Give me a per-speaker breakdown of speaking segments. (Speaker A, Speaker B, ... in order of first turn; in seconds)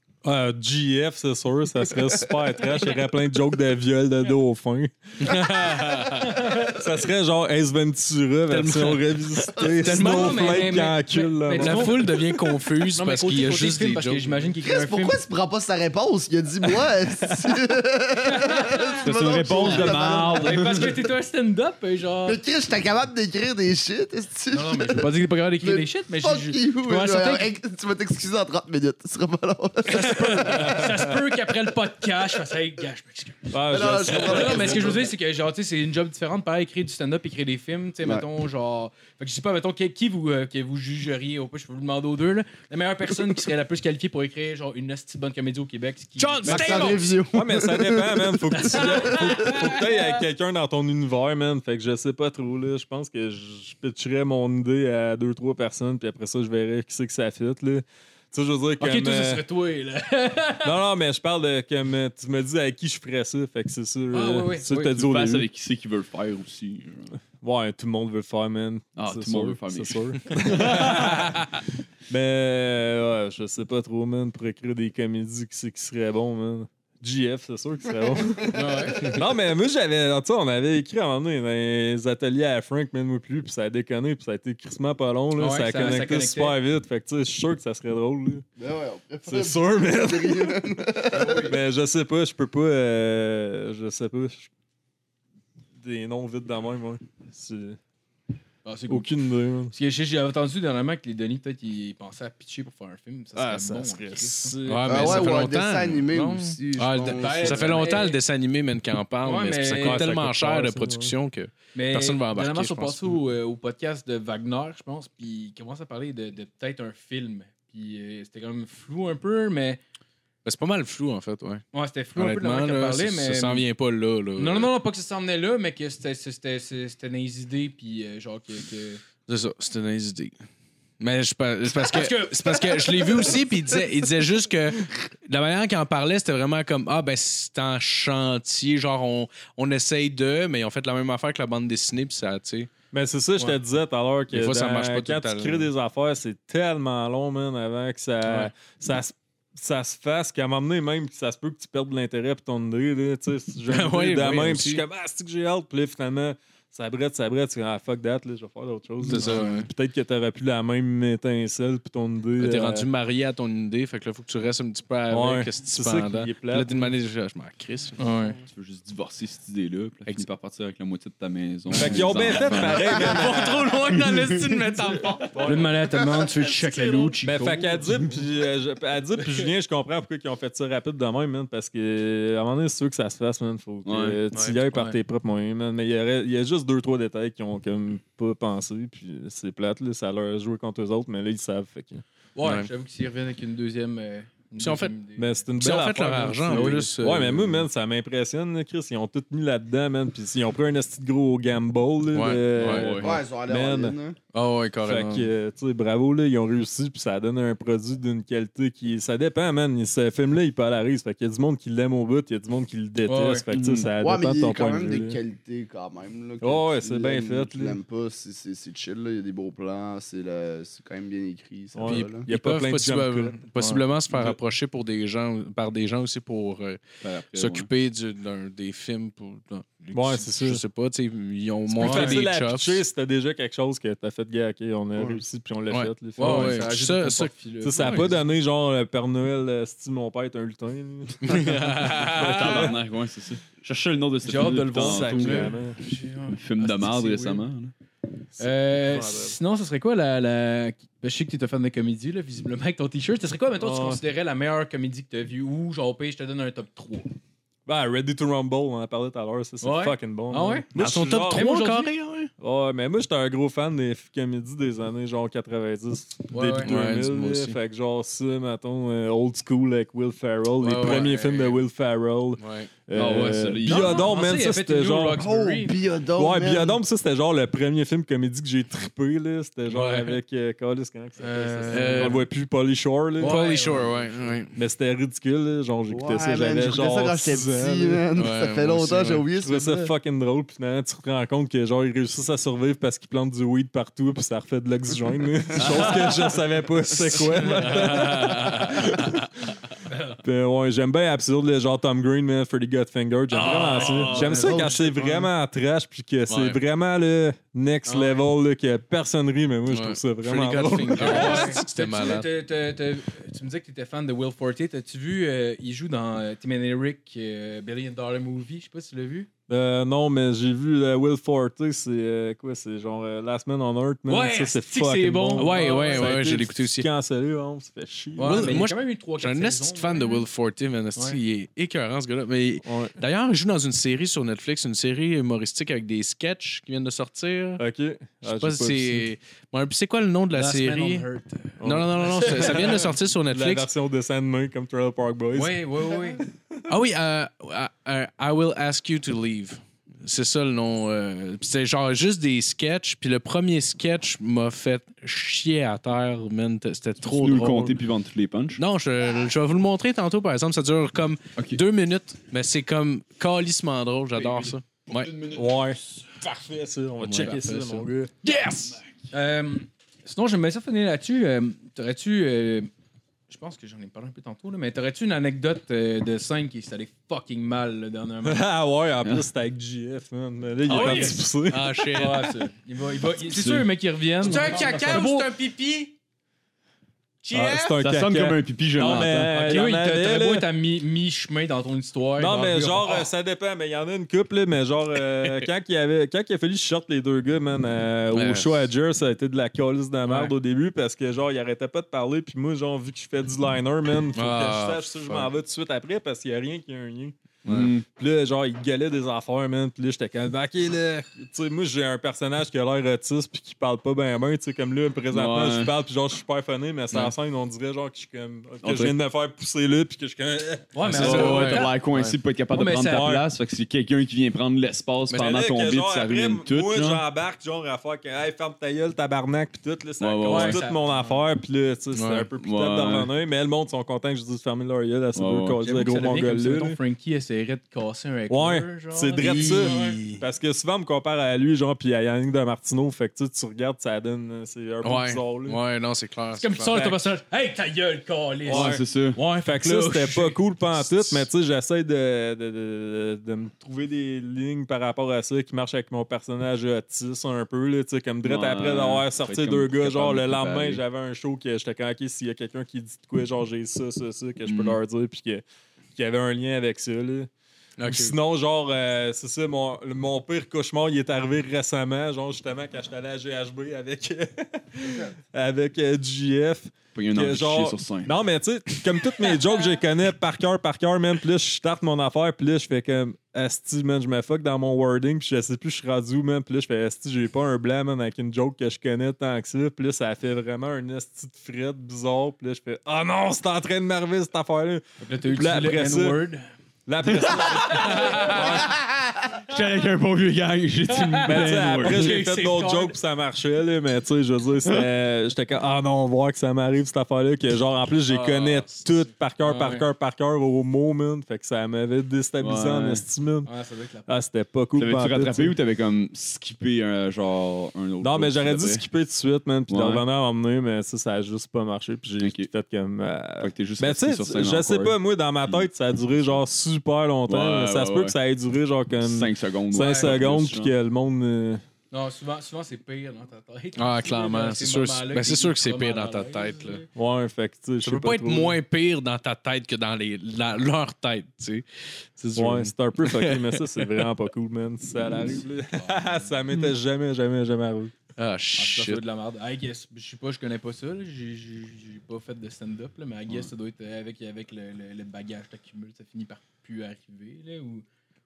Speaker A: 0.2-5.7, 6.4-12.3, 30.7-31.0, 33.5-35.0, 46.5-59.4, 60.6-65.5, 67.4-88.4, 89.3-94.5, 95.8-97.8, 98.9-99.7, 103.4-105.4, 109.8-111.2, 142.9-162.9, 165.1-166.9, 171.7-173.7, 175.2-175.9, 176.4-192.0, 195.2-204.0, 204.8-215.2, 216.4-217.8, 221.7-224.4, 229.9-230.6, 231.7-236.7, 237.6-242.8, 244.4-245.8, 248.4-249.4, 253.6-254.0, 257.7-261.7, 262.4-275.4, 276.1-283.4, 284.5-288.1, 289.3-299.6, 300.2-311.6, 319.5-328.7, 332.6-333.0, 337.6-339.1, 341.6-345.6, 365.2-368.1, 378.2-381.9, 384.3-385.0, 387.3-390.5, 392.2-421.4, 422.9-423.3, 425.1-436.8, 438.3-445.6, 448.5-465.4, 465.9-467.3, 467.9-496.2, 496.9-498.8, 501.2-513.5, 514.1-515.6, 518.0-531.6, 537.0-538.6, 542.4-547.9
Speaker B: 5.2-6.3, 8.5-10.9, 11.5-14.5, 46.2-47.2, 104.7-113.2, 120.5-121.6, 122.2-124.7, 129.3-130.4, 131.0-142.7, 144.3-145.7, 153.7-154.8, 159.1-159.7, 162.4-168.0, 171.8-175.5, 192.4-192.7, 194.6-194.9, 195.6-197.7, 202.1-202.9, 204.3-205.3, 221.9-232.8, 235.7-238.1, 241.2-242.7, 260.8-262.3, 266.6-267.6, 270.6-271.6, 272.4-272.7, 279.7-280.2, 281.7-282.3, 283.2-284.6, 288.1-289.2, 297.1-299.1, 303.4-304.5, 306.3-306.6, 309.7-312.3, 325.4-326.9, 328.2-337.6, 338.2-341.1, 341.6-343.7, 346.7-357.8, 358.6-365.2, 367.0-368.8, 380.6-382.4, 384.2-385.9, 387.2-387.7, 398.1-398.7, 404.1-405.3, 420.9-422.1, 431.9-432.3, 439.2-440.1, 444.8-447.0, 467.8-468.2, 508.1-509.1, 533.8-536.8, 537.8-541.6, 542.2-544.1, 548.2-549.0
Speaker C: 9.6-9.9, 14.6-20.9, 22.3-30.9, 33.7-35.1, 46.5-49.8, 78.1-79.2, 88.6-91.5, 104.9-107.9, 202.9-204.2, 213.9-222.3, 275.3-276.8, 285.9-289.9, 304.0-305.3
Speaker D: 9.8-12.1, 12.9-15.2, 18.3-18.9, 19.6-22.4, 24.5-27.5, 29.9-47.0, 48.5-50.1, 58.8-60.8, 64.1-64.9, 78.5-79.2, 85.4-86.6, 91.1-91.5, 98.7-99.1, 99.7-104.6, 107.2-108.2, 109.2-110.0, 111.7-119.8, 121.7-123.7, 124.4-129.0, 131.8-133.4, 159.1-159.4, 168.0-168.4, 175.4-177.9, 184.3-185.0, 192.3-195.5, 196.5-196.9, 213.1-213.5, 231.8-232.2, 236.2-238.2, 244.2-247.5, 248.4-257.1, 259.6-260.7, 261.3-261.9, 266.3-266.7, 273.7-275.8, 281.2-282.2, 283.2-284.4, 303.3-304.6, 307.9-308.3, 310.9-319.3, 324.1-326.1, 328.2-330.3, 340.3-342.9, 345.3-346.2, 369.1-372.7, 373.3-378.4, 380.7-381.2, 381.9-385.3, 388.8-393.1, 400.1-400.4, 420.7-421.7, 422.5-423.1, 430.3-431.2, 435.6-440.2, 446.4-451.2, 495.0-496.5, 497.7-498.6, 501.0-503.0, 509.4-509.9, 513.5-514.1, 529.8-530.2, 531.9-536.9, 545.7-546.4, 548.6-557.9
Speaker E: 19.0-21.0, 64.7-67.1, 69.0-71.4, 168.5-174.0, 183.8-184.2, 202.7-203.2, 213.5-213.9, 227.0-227.7, 241.9-245.6, 246.3-247.7, 272.9-274.1, 357.0-358.6, 361.4-361.6, 383.2-383.7, 387.8-389.4, 407.4-407.8, 415.1-415.7, 418.6-419.0, 420.9-427.0, 430.0-430.6, 432.4-433.1, 435.1-435.6, 448.5-449.2, 458.2-460.8, 464.5-464.8, 476.9-478.1, 497.0-498.6, 499.5-502.2, 512.4-513.0, 514.8-518.9, 519.7-520.0, 522.2-522.5, 523.4-525.7, 527.3-528.2, 529.0-530.7